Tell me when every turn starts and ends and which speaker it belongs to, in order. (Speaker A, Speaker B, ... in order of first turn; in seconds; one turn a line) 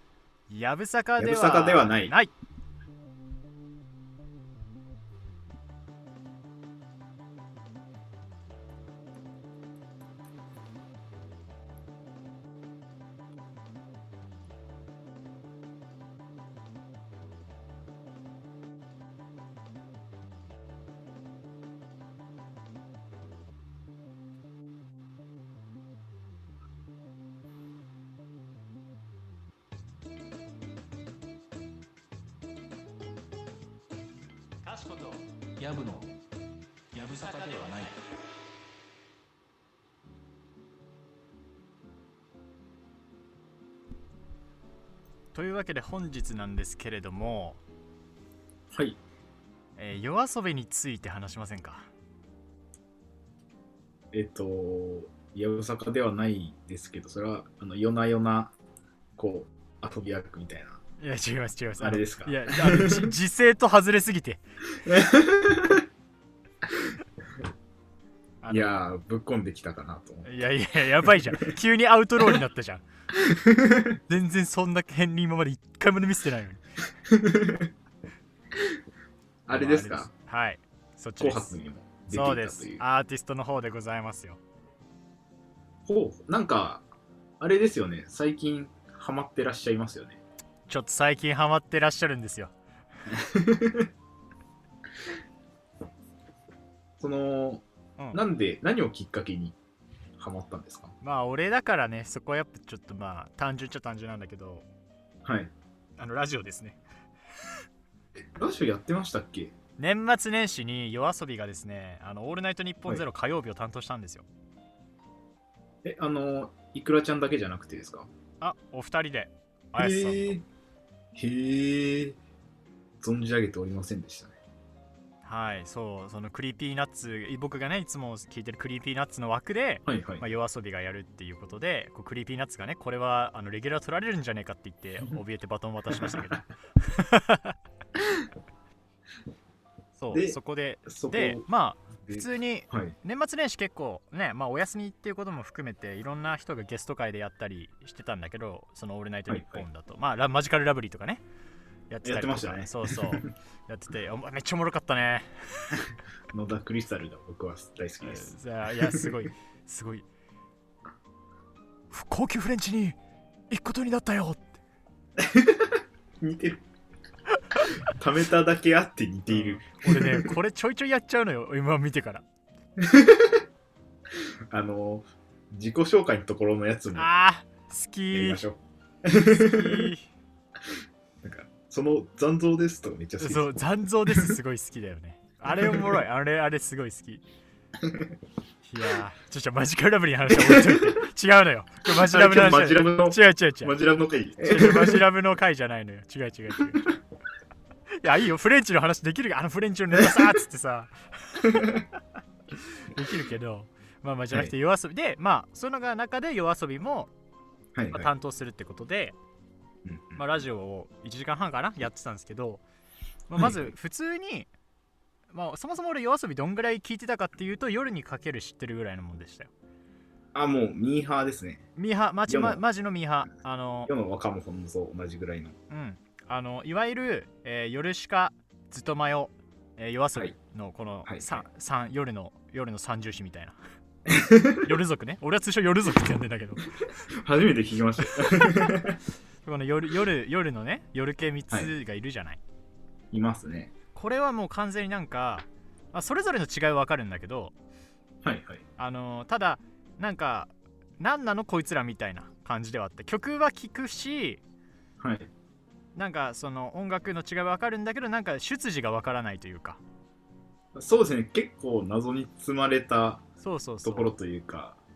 Speaker A: 0.5-2.3
Speaker B: 1.2-2.1
Speaker A: 34.7-35.0
Speaker C: 34.8-36.1
Speaker C: 36.9-38.0
Speaker A: 45.3-47.6
Speaker B: 48.7-49.0
Speaker A: 49.8-51.9
Speaker B: 54.1-58.5
Speaker B: 59.2-60.8
Speaker A: 61.0-64.4
Speaker B: 61.8-63.1
Speaker B: 64.7-65.8
Speaker B: 66.7-66.9
Speaker A: 68.4-68.8
Speaker B: 68.5-70.4
Speaker A: 70.2-72.8
Speaker B: 71.0-71.5
Speaker B: 73.1-74.0
Speaker A: 74.1-76.6
Speaker B: 77.0-77.7
Speaker B: 79.5-80.1
Speaker A: 79.5-81.5
Speaker B: 81.2-82.8
Speaker A: 82.1-84.4
Speaker B: 85.9-86.8
Speaker B: 87.4-90.2
Speaker A: 90.7-92.5
Speaker B: 93.1-93.9
Speaker B: 97.0-99.5
Speaker B: 100.2-100.9
Speaker A: 101.0-104.7
Speaker B: 105.2-105.5
Speaker A: 106.0-106.8
Speaker B: 108.4-109.5
Speaker A: 109.8-114.3
Speaker B: 115.8-118.1
Speaker A: 118.4-120.4
Speaker B: 119.8-120.4
Speaker B: 121.1-122.2
Speaker B: 123.0-124.3
Speaker A: 125.2-137.6
Speaker B: 129.8-130.2
Speaker B: 138.0-138.2
Speaker A: 140.0-151.2
Speaker B: 140.1-141.4
Speaker B: 142.0-142.9
Speaker B: 149.3-149.6
Speaker A: 151.9-155.8
Speaker B: 152.0-153.3
Speaker B: 156.3-158.3
Speaker A: 158.0-160.1
Speaker A: 161.9-163.0
Speaker A: 163.5-164.6
Speaker B: 165.2-166.6
Speaker B: 167.6-170.3
Speaker A: 169.3-172.2
Speaker B: 172.8-173.4
Speaker B: 174.5-177.1
Speaker A: 176.9-178.4
Speaker B: 178.1-179.9
Speaker A: 179.2-180.1
Speaker B: 181.2-184.3
Speaker A: 183.2-187.2
Speaker B: 185.5-185.9
Speaker B: 187.8-188.1
Speaker A: 188.6-193.7
Speaker B: 190.3-190.9
Speaker B: 191.9-195.0
Speaker A: 194.4-196.9
Speaker A: 197.9-201.8
Speaker B: 201.4-201.8
Speaker A: 202.5-207.1
Speaker B: 207.7-208.1
Speaker A: 207.9-209.2
Speaker B: 209.8-210.2
Speaker A: 210.2-212.6
Speaker A: 213.3-214.5
Speaker B: 213.4-213.7
Speaker A: 215.3-219.5
Speaker B: 220.3-221.6
Speaker A: 221.8-223.9
Speaker B: 222.3-222.6
Speaker B: 223.9-225.6
Speaker A: 225.7-233.6
Speaker B: 231.1-231.4
Speaker B: 234.1-234.7
Speaker A: 234.6-236.6
Speaker B: 237.1-239.0
Speaker A: 238.2-238.7
Speaker A: 239.4-242.4
Speaker B: 243.1-243.7
Speaker A: 243.9-247.5
Speaker B: 248.2-248.6
Speaker A: 248.8-254.4
Speaker B: 255.0-255.3
Speaker A: 255.9-259.8
Speaker B: 260.7-263.2
Speaker A: 263.4-264.1
Speaker B: 263.8-264.8